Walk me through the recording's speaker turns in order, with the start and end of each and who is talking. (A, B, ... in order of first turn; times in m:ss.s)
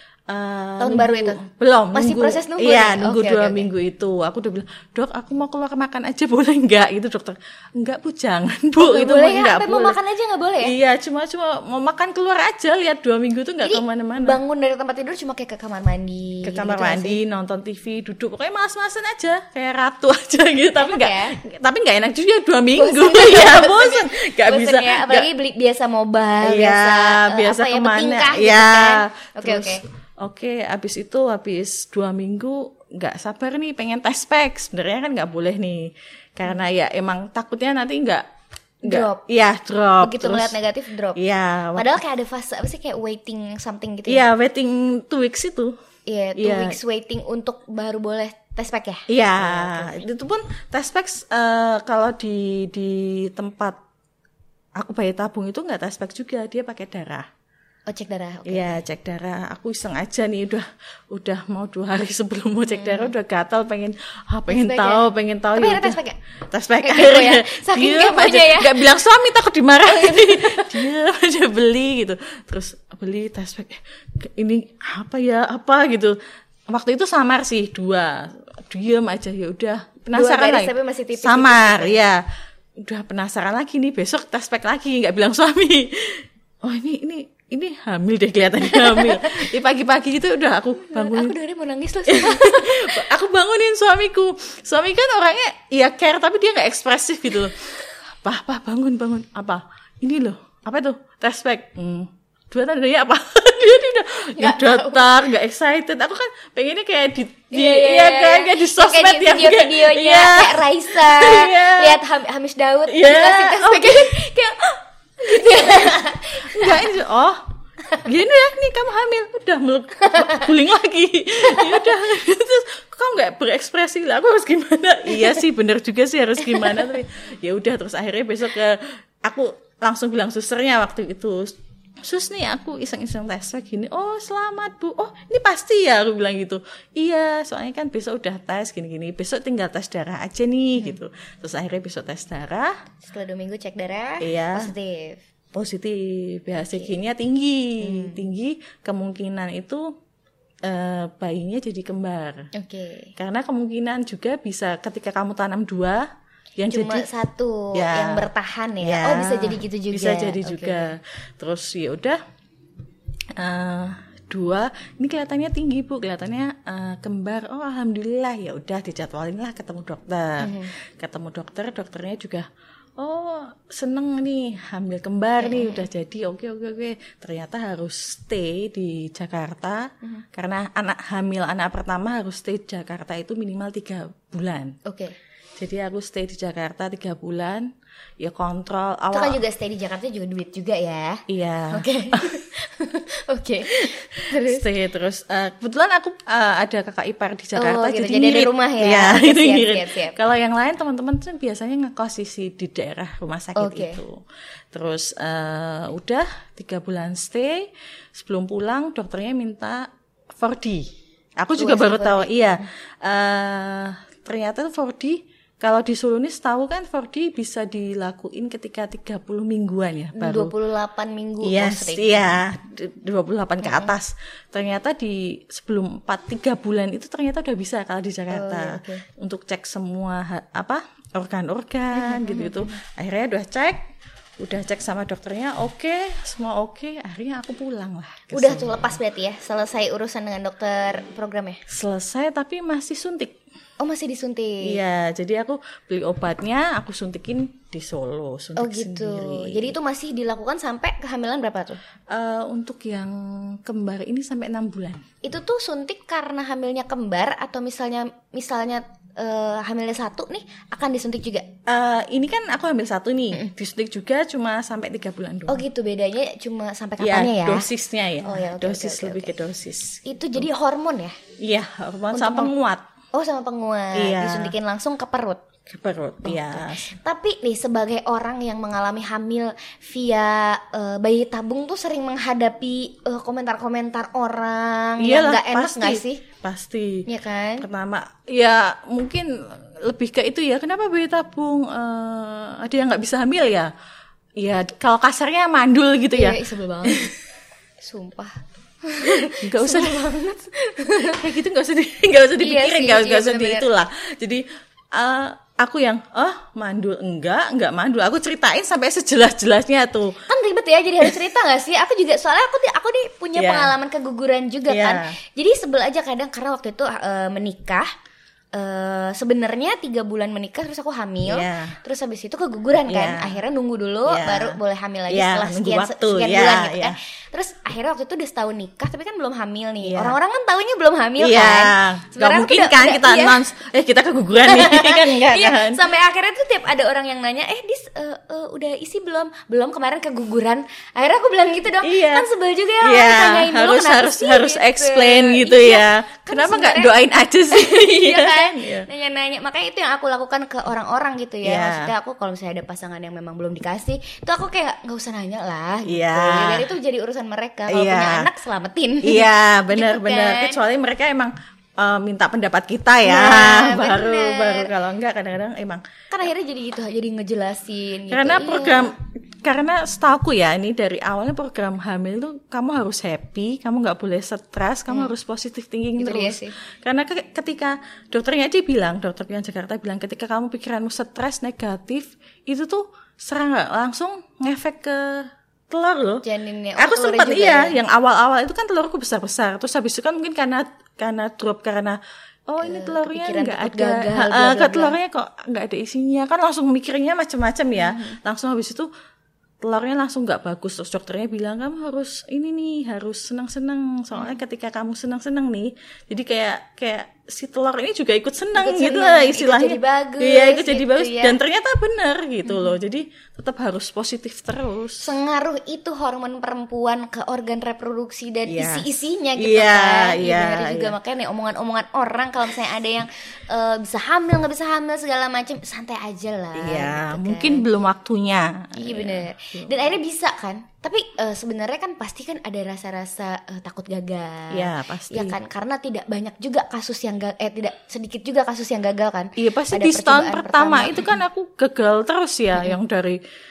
0:00.3-0:10.0 A
0:00.8-0:01.4 B
0:01.9-0:03.7 B
0:08.8-0:10.7 B
0:10.6-0:14.4 A
0:13.6-0:17.2 B
0:16.4-0:25.3 A
0:20.8-0:21.4 B
0:22.8-0:29.8 B
0:26.4-0:38.2 A
0:38.8-0:40.6 A
0:38.8-0:39.2 B
0:40.0-0:41.2 B
0:41.1-0:42.0 A
0:41.7-0:44.2 B
0:44.0-0:45.8 A
0:46.1-0:50.0 B
0:46.4-0:46.8 A
0:49.1-0:53.8 A
0:54.8-0:57.3 A
0:57.9-0:58.8 B
0:58.5-1:06.0 A
1:02.7-1:03.1 B
1:04.5-1:06.2 B
1:06.5-1:16.2 A
1:06.8-1:08.8 B
1:09.9-1:10.8 B
1:16.7-1:22.2 A
1:20.1-1:22.0 B
1:22.8-1:31.3 A
1:28.7-1:29.4 B
1:30.9-1:33.0 B
1:32.1-1:52.0 A
1:44.4-1:45.0 B
1:47.5-1:56.9 B
1:52.9-1:54.2 A
1:55.2-1:57.4 A
1:58.0-2:22.8 A
2:00.1-2:00.4 B
2:01.5-2:01.9 B
2:06.6-2:06.8 B
2:23.0-2:25.2 B
2:24.2-2:24.7 A
2:25.5-2:29.9 A
2:26.6-2:26.9 B
2:27.8-2:28.2 B
2:30.6-2:32.5 A
2:32.5-2:33.1 B
2:33.2-2:36.1 A
2:36.6-2:37.1 A
2:36.6-2:40.9 B
2:37.7-2:42.2 A
2:43.4-2:52.5 A
2:50.4-2:50.7 B
2:53.0-3:04.8 A
2:55.4-2:55.8 B
3:04.8-3:05.2 B
3:05.6-3:09.4 A
3:09.1-3:14.6 B
3:11.3-3:12.4 A
3:13.7-3:40.5 A
3:17.6-3:20.2 B
3:23.6-3:24.0 B
3:31.6-3:32.6 B
3:40.2-3:42.4 B
3:41.4-3:53.8 A
3:43.6-3:43.9 B
3:48.3-3:49.0 B
3:51.9-3:52.8 B
3:54.4-3:59.0 A
3:58.3-4:01.6 B
4:01.7-4:03.4 A
4:03.8-4:04.8 B
4:04.6-4:09.7 A
4:08.6-4:11.8 B
4:12.1-4:15.0 A
4:15.2-4:21.5 B
4:21.6-4:25.6 A
4:25.5-4:27.7 B
4:27.0-4:30.4 A
4:28.2-4:29.4 B
4:30.0-4:31.2 B
4:31.4-4:32.8 A
4:32.1-4:32.5 B
4:33.1-4:35.4 B
4:33.9-4:34.5 A
4:35.6-4:36.9 A
4:36.2-4:46.2 B
4:45.0-4:47.1 A
4:47.1-4:47.6 B
4:47.6-4:53.7 A
4:54.4-4:57.1 A
4:56.1-4:57.1 B
4:57.8-5:01.2 B
4:59.0-5:00.2 A
5:01.0-5:10.2 A
5:02.4-5:03.7 B
5:10.3-5:17.9 B
5:13.4-5:13.7 A
5:14.7-5:15.1 A
5:18.5-5:33.4 B
5:21.2-5:21.8 A
5:22.9-5:23.4 A
5:24.0-5:27.0 A
5:29.8-5:30.2 A
5:31.2-5:35.9 A
5:34.4-6:00.6 B
5:41.8-5:42.3 A
5:42.8-5:48.9 A
5:51.4-5:51.9 A
5:55.8-5:56.7 A
5:57.7-5:58.3 A
5:59.0-6:05.9 A
6:03.0-6:04.7 B
6:06.1-6:08.9 B
6:08.1-6:26.2 A
6:16.0-6:16.5 B
6:26.2-6:27.8 B
6:26.8-6:38.9 A
6:32.6-6:35.0 B
6:37.7-6:38.2 B
6:39.6-6:55.1 A
6:48.5-6:51.4 B
6:52.4-6:52.7 B
6:55.0-7:07.7 B
6:58.5-7:01.0 A
7:06.6-7:09.9 A
7:08.7-7:21.2 B
7:14.5-7:15.4 A
7:19.4-7:23.2 A